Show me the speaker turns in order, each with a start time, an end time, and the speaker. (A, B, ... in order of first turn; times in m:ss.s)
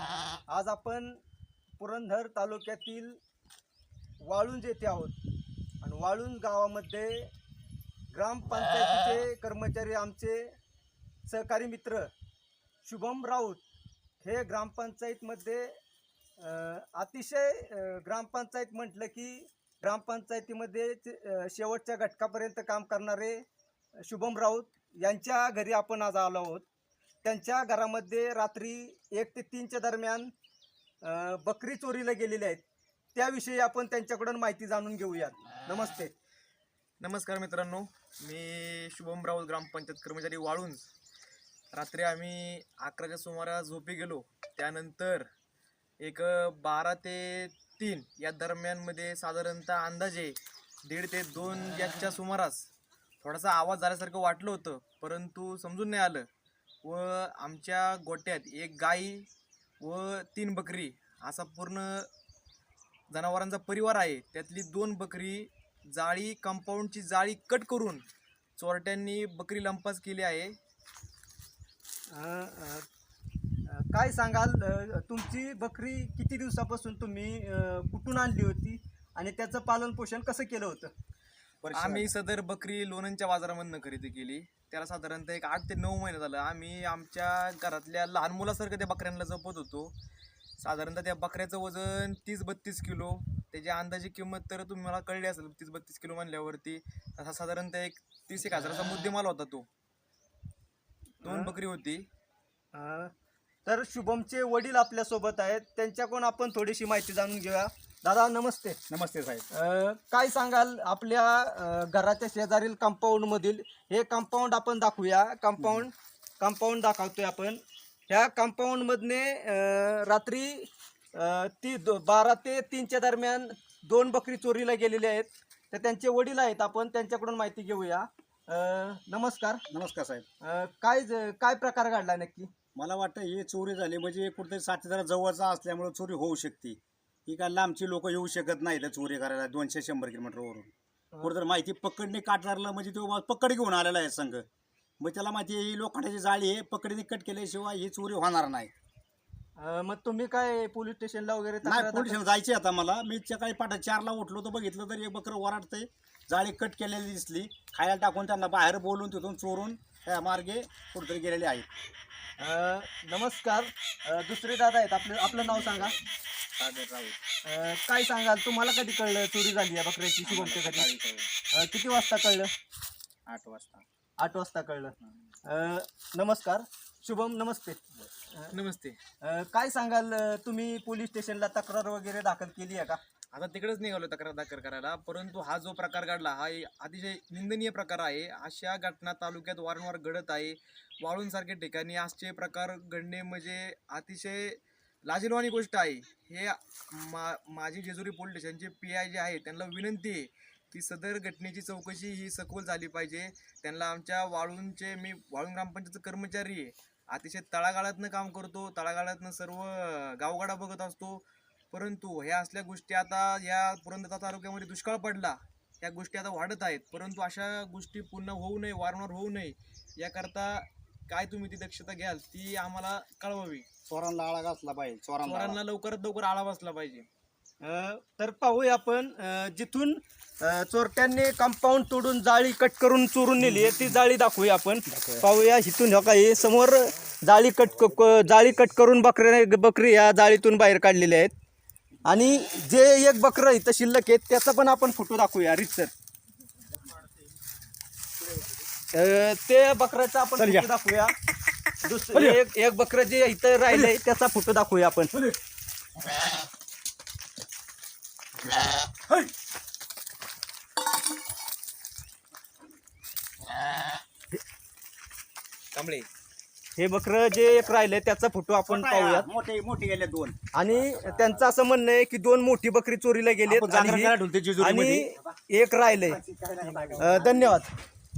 0:00.5-0:01.2 A
0:01.8-0:03.2 A
0:04.2-0:05.2 A
0:05.8-0:07.3 A
0:08.1-0:10.5 A
0:11.3-0:12.1 A
0:12.8-0:13.6 A
0:14.2-0:15.7 A
0:16.4-0:23.4 A
0:24.0-0:26.7 A
0:27.2-0:30.3 A
0:31.0-0:32.6 A
0:33.2-0:36.1 A
0:37.0-0:40.8 B
0:41.7-0:45.3 B
0:46.0-0:52.7 B
0:53.2-0:56.3 B
0:56.8-0:59.3 B
0:59.8-1:02.1 B
1:03.1-1:08.0 B
1:08.6-1:10.6 B
1:12.1-1:12.9 A
1:13.7-1:20.9 A
1:21.6-1:22.1 C
1:21.7-1:30.0 B
1:30.6-1:39.7 B
1:41.2-1:42.1 B
1:41.2-1:41.5 A
1:42.7-1:43.1 A
1:43.7-1:48.8 A
1:48.9-1:49.5 C
1:49.5-2:09.6 A
1:55.6-1:55.8 C
2:09.7-2:10.3 C
2:10.4-2:12.5 A
2:12.8-2:20.7 C
2:21.2-2:24.4 C
2:25.0-2:28.7 C
2:29.6-2:32.2 A
2:31.6-2:41.7 C
2:42.4-2:46.0 A
2:45.3-2:46.0 C
2:46.6-2:47.2 C
2:47.4-2:50.9 A
2:50.2-2:51.3 C
2:51.5-2:52.5 A
2:53.3-2:53.8 C
2:54.2-2:54.9 A
2:55.4-2:58.5 A
2:58.5-2:59.0 B
2:59.2-3:03.0 A
3:03.3-3:43.7 B
3:43.9-3:45.6 C
3:45.2-3:47.1 B
3:47.6-4:01.3 A
3:53.5-3:53.8 C
4:02.1-4:05.9 A
4:08.9-4:11.1 A
4:10.4-4:10.7 C
4:11.8-4:15.1 A
4:12.1-4:12.4 C
4:25.7-4:26.1 B
4:26.8-4:29.3 A
4:28.7-4:31.4 C
4:30.5-4:36.2 A
4:33.5-4:35.1 C
4:36.1-4:37.6 C
4:37.0-4:37.7 A